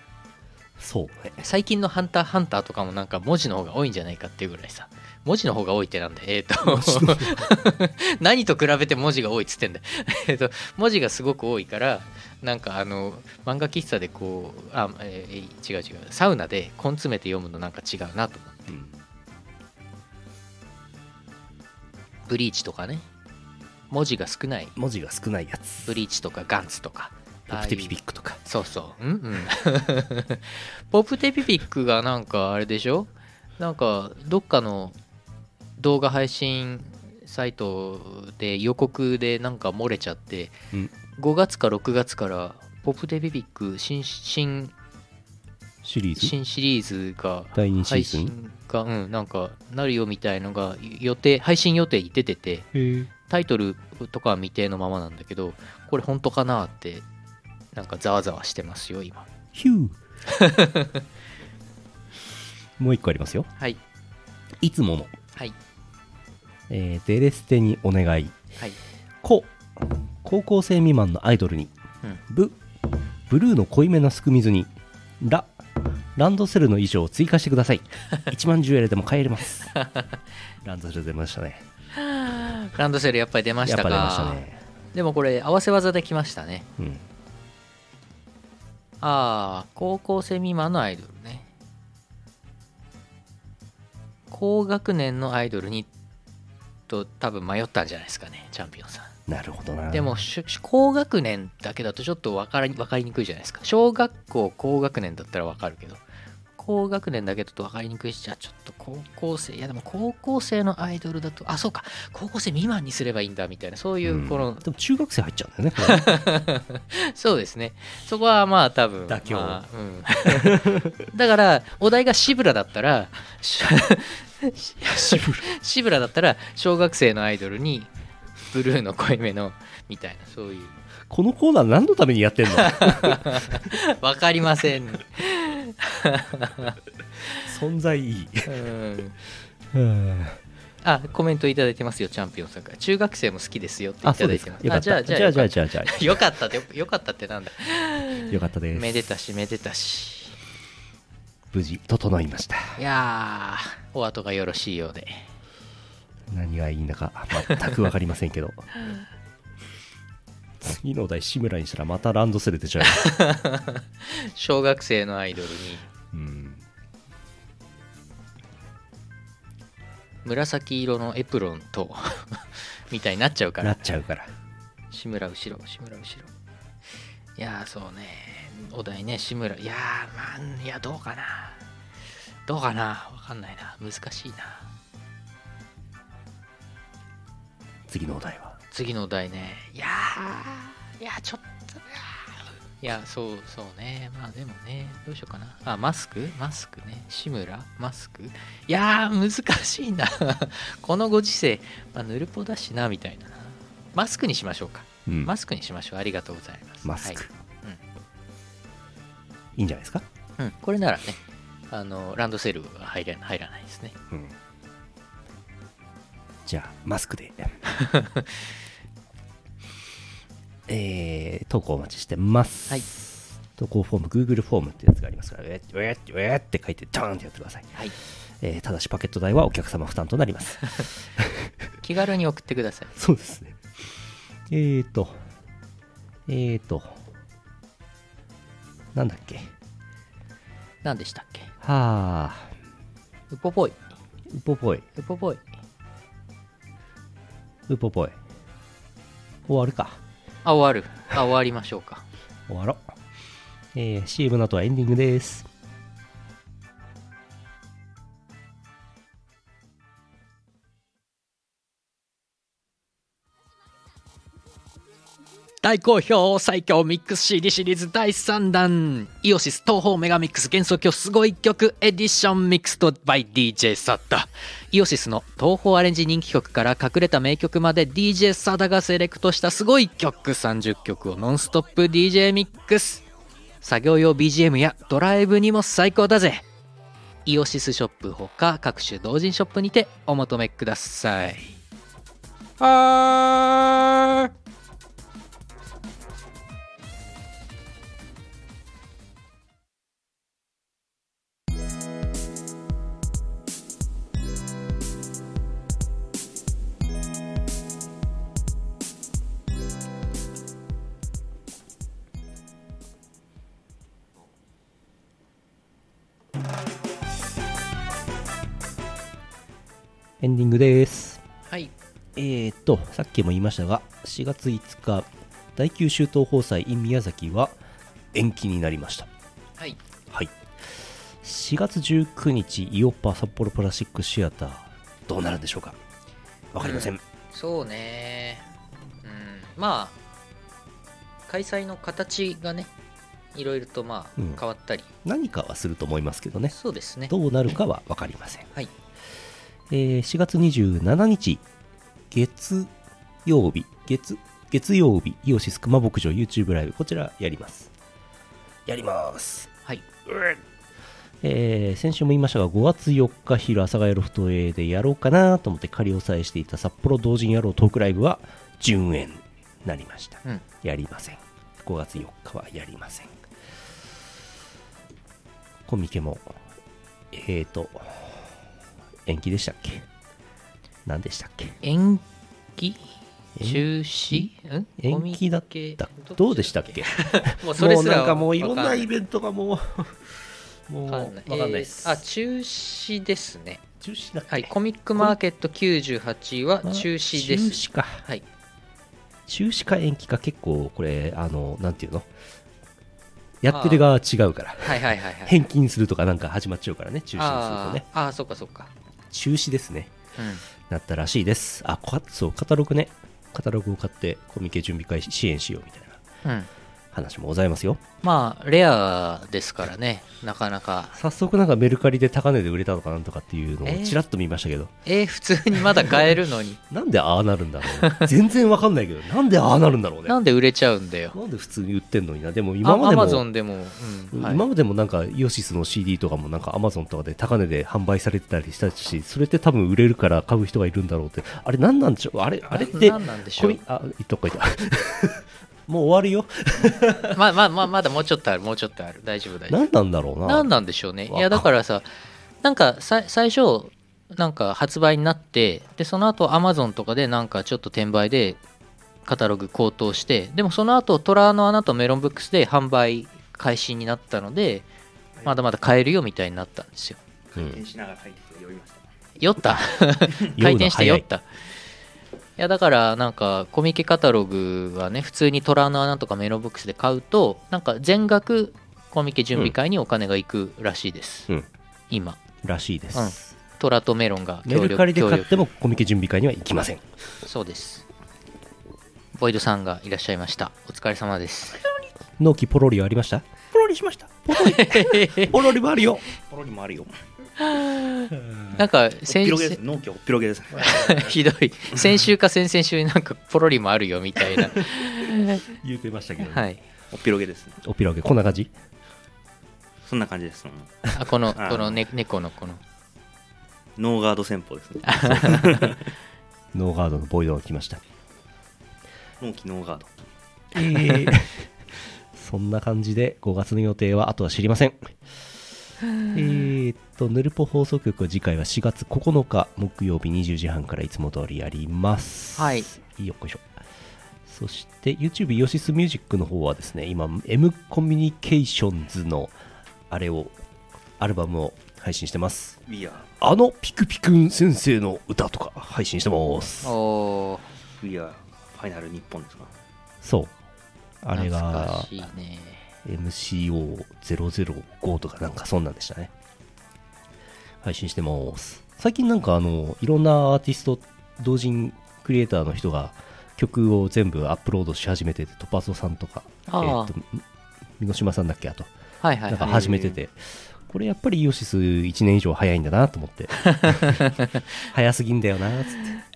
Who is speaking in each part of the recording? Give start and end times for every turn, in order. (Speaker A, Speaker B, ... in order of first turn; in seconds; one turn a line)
Speaker A: 0.8-1.5
Speaker B: 1.4-18.8
Speaker A: 6.6-7.5
Speaker A: 18.7-18.9
Speaker B: 22.3-23.1
Speaker B: 23.9-24.8
Speaker A: 24.8-25.9
Speaker B: 25.9-35.0
Speaker A: 27.5-28.4
Speaker B: 35.8-40.6
Speaker B: 41.1-44.7
Speaker A: 45.8-46.4
Speaker B: 46.2-52.7
Speaker A: 47.5-48.3
Speaker A: 52.7-53.1
Speaker B: 53.3-57.0
Speaker B: 57.7-59.3
Speaker A: 59.5-60.0
Speaker B: 60.3-61.0
Speaker A: 62.8-63.5
Speaker A: 64.6-65.2
Speaker A: 66.7-68.3
Speaker A: 69.2-71.7
Speaker A: 72.3-72.6
Speaker A: 73.3-75.5
Speaker A: 76.2-79.7
Speaker B: 79.8-80.1
Speaker A: 80.6-81.7
Speaker B: 82.0-84.4
Speaker A: 83.6-84.6
Speaker B: 84.9-86.7
Speaker A: 86.8-87.1
Speaker B: 89.0-91.5
Speaker B: 94.3-95.9
Speaker B: 96.9-99.1
Speaker A: 99.3-100.1
Speaker B: 99.9-106.0
Speaker B: 106.6-114.7
Speaker A: 114.0-116.1
Speaker B: 115.8-127.9
Speaker A: 119.1-119.6
Speaker A: 120.3-121.0
Speaker A: 124.9-125.5
Speaker B: 128.5-130.8
Speaker A: 131.1-133.5
Speaker B: 132.6-136.8
Speaker A: 137.4-138.6
Speaker B: 138.5-139.2
Speaker A: 139.7-140.4
Speaker B: 140.8-150.4
Speaker A: 144.0-146.2
Speaker A: 148.3-149.0
Speaker A: 151.5-152.8
Speaker B: 152.8-155.3
Speaker A: 156.3-158.7
Speaker A: 160.6-163.1
Speaker B: 162.8-165.9
Speaker A: 166.1-166.6
Speaker B: 170.2-173.8
Speaker A: 173.6-174.3
Speaker B: 174.9-176.3
Speaker B: 177.4-181.6
Speaker B: 182.5-184.7
Speaker A: 187.9-188.6
Speaker B: 188.7-207.8
Speaker A: 205.1-205.3
Speaker A: 206.8-207.3
Speaker A: 209.6-210.1
Speaker B: 210.4-211.2
Speaker B: 211.7-213.9
Speaker A: 216.4-217.6
Speaker B: 217.8-218.2
Speaker A: 220.7-227.8
Speaker A: 228.4-231.5
Speaker B: 231.8-232.9
Speaker A: 232.9-233.6
Speaker A: 234.5-235.2
Speaker A: 236.3-237.0
Speaker A: 238.9-239.5
Speaker B: 240.8-241.5
Speaker A: 241.6-242.5
Speaker B: 243.3-243.8
Speaker A: 244.3-244.9
Speaker B: 245.0-245.4
Speaker A: 247.7-248.2
Speaker A: 249.5-250.0
Speaker B: 250.4-252.1
Speaker A: 252.5-252.9
Speaker A: 253.7-255.5
Speaker B: 265.6-283.1
Speaker B: 283.6-286.4
Speaker B: 287.3-291.5
Speaker B: 292.6-294.3
Speaker A: 320.2-321.2
Speaker B: 321.5-321.7
Speaker A: 322.2-327.6
Speaker A: 328.1-329.1
Speaker A: 330.1-330.4
Speaker A: 331.2-335.8
Speaker A: 336.5-337.0
Speaker B: 336.6-338.5
Speaker B: 339.0-340.0
Speaker B: 341.3-342.7
Speaker B: 343.3-344.9
Speaker A: 344.2-344.4
Speaker A: 345.0-346.6
Speaker B: 346.5-347.1
Speaker A: 347.1-348.5
Speaker A: 349.7-351.4
Speaker A: 352.1-352.7
Speaker A: 353.2-357.7
Speaker A: 358.7-359.5
Speaker A: 360.1-360.4
Speaker A: 361.2-373.1
Speaker A: 375.7-376.4
Speaker A: 377.1-378.3
Speaker A: 379.1-379.9
Speaker A: 380.9-381.6
Speaker B: 381.6-382.0
Speaker B: 382.6-382.9
Speaker A: 383.4-392.0
Speaker B: 383.4-388.9
Speaker B: 390.9-393.6
Speaker A: 393.8-395.2
Speaker B: 394.3-398.2
Speaker A: 396.6-398.0
Speaker A: 399.3-402.1
Speaker A: 403.4-407.9
Speaker B: 403.5-403.9
Speaker B: 404.6-405.4
Speaker B: 407.2-408.7
Speaker A: 409.1-409.9
Speaker B: 410.2-410.4
Speaker A: 410.6-416.0
Speaker B: 416.2-416.5
Speaker A: 416.9-417.8
Speaker B: 418.0-421.0
Speaker A: 420.9-424.7
Speaker B: 423.6-424.0
Speaker B: 424.9-426.6
Speaker A: 425.7-426.1
Speaker A: 426.7-430.2
Speaker B: 427.7-428.1
Speaker B: 430.1-431.2
Speaker A: 431.1-433.2
Speaker B: 432.6-434.4
Speaker A: 434.1-447.2
Speaker B: 442.5-443.6
Speaker B: 447.1-449.6
Speaker A: 449.5-450.5
Speaker B: 450.2-451.9
Speaker A: 451.1-451.5
Speaker B: 452.4-458.4
Speaker B: 459.1-464.7
Speaker B: 465.2-467.0
Speaker C: 467.3-468.9
Speaker B: 469.2-471.3
Speaker A: 470.2-471.1
Speaker B: 472.4-481.3
Speaker B: 481.9-482.2
Speaker A: 482.4-483.3
Speaker B: 482.9-485.4
Speaker A: 484.4-486.9
Speaker B: 487.2-487.9
Speaker B: 489.1-491.6
Speaker A: 492.2-493.3
Speaker C: 493.5-494.1
Speaker A: 494.0-496.1
Speaker B: 494.3-495.4
Speaker C: 496.2-496.9
Speaker B: 497.4-499.6
Speaker C: 499.1-501.1
Speaker B: 500.6-505.5
Speaker A: 505.4-506.4
Speaker B: 506.2-506.6
Speaker C: 506.9-507.6
Speaker A: 507.6-508.5
Speaker C: 509.9-511.9
Speaker B: 510.9-512.6
Speaker C: 513.8-515.9
Speaker B: 514.9-515.6
Speaker A: 516.5-517.8
Speaker C: 519.2-519.9
Speaker A: 520.5-521.5
Speaker A: 522.1-525.0
Speaker A: 526.1-533.5
Speaker B: 532.4-532.7
Speaker A: 534.3-539.4
Speaker A: 539.9-540.4
Speaker A: 541.0-542.6
Speaker C: 542.7-543.1
Speaker A: 543.2-546.8
Speaker B: 546.6-547.5
Speaker C: 547.8-549.5
Speaker A: 550.0-550.3
Speaker A: 551.0-552.1
Speaker B: 551.1-552.6
Speaker A: 552.9-556.1
Speaker A: 557.6-567.2
Speaker B: 566.5-566.9
Speaker A: 567.8-568.7
Speaker B: 569.0-569.7
Speaker A: 569.3-574.0
Speaker C: 569.4-570.0
Speaker B: 573.5-574.4
Speaker A: 574.7-576.0